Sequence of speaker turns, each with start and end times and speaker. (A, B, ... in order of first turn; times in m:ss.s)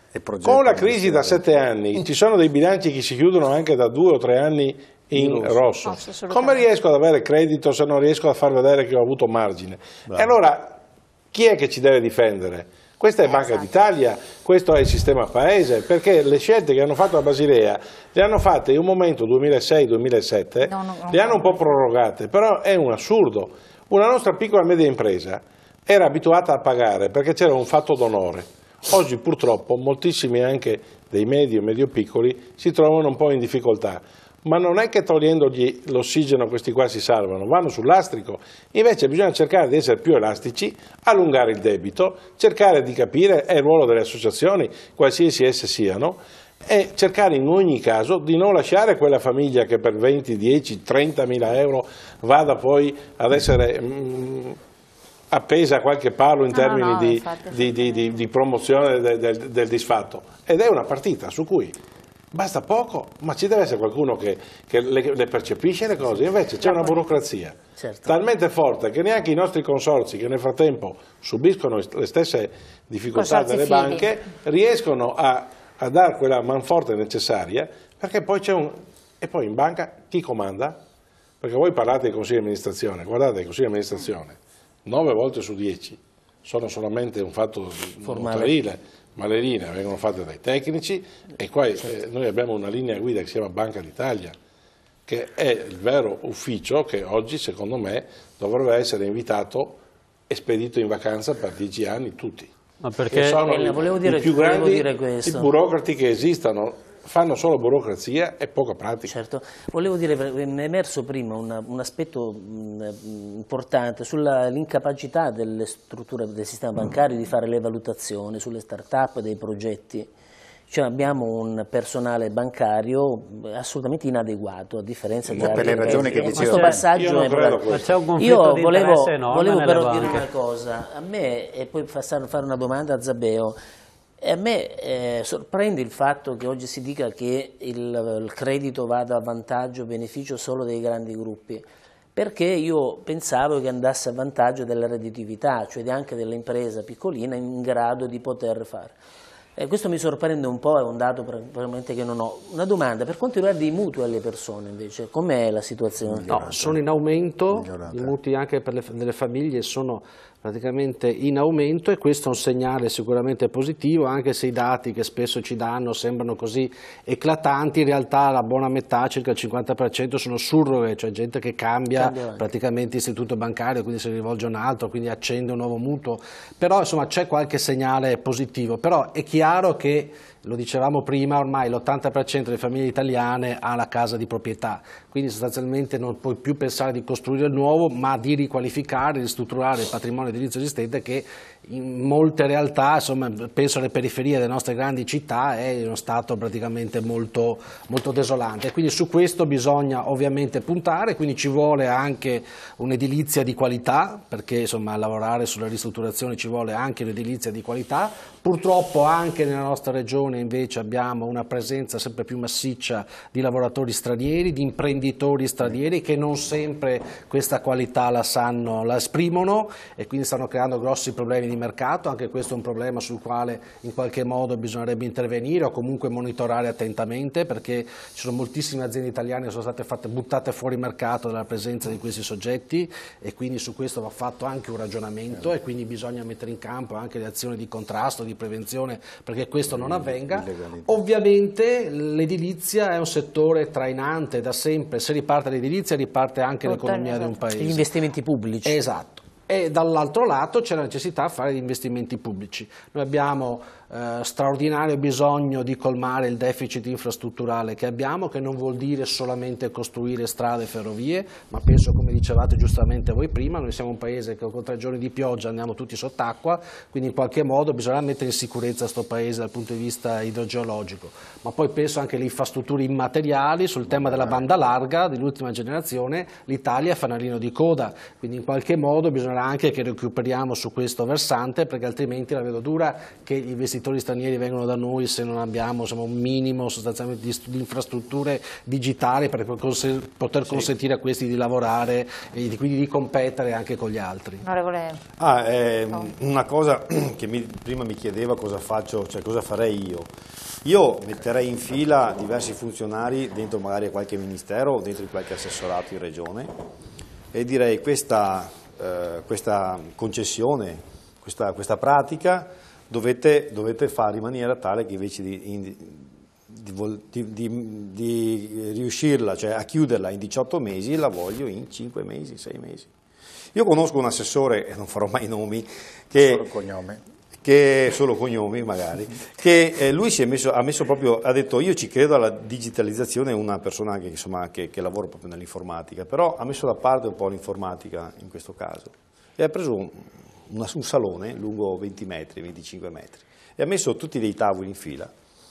0:00.1-0:01.5 A
0:00.4-0:10.8 B
0:05.8-0:06.7 C
0:10.1-0:10.4 A
0:11.3-0:54.6 B
0:13.2-0:13.8 C
0:20.6-0:21.8 C
0:55.3-1:01.8 B
0:56.5-0:58.1 C
1:02.3-1:20.8 B
1:06.6-1:07.1 C
1:07.8-1:08.1 D
1:13.1-1:14.1 C
1:21.4-1:34.4 B
1:28.0-1:28.6 D
1:35.1-1:39.8 B
1:40.3-1:42.5 B
1:42.8-1:43.5 E
1:43.1-1:49.1 B
1:43.4-1:45.5 D
1:49.0-2:00.1 D
2:00.7-2:13.6 D
2:05.3-2:06.9 A
2:06.4-2:08.0 B
2:06.4-2:06.8 E
2:07.7-2:10.3 E
2:14.2-2:29.0 D
2:29.6-2:36.4 D
2:36.1-2:36.9 A
2:36.3-4:07.9 F
2:37.5-2:38.2 A
2:51.9-2:52.5 D
3:59.6-4:01.1 A
4:06.6-4:07.3 C
4:07.6-4:08.8 D
4:08.6-4:54.4 F
4:33.8-4:34.4 A
4:54.4-4:55.0 C
4:55.2-5:00.1 G
5:00.6-5:06.5 G
5:07.3-5:22.9 G
5:23.5-5:26.5 G
5:26.2-5:27.0 A
5:27.4-5:45.1 G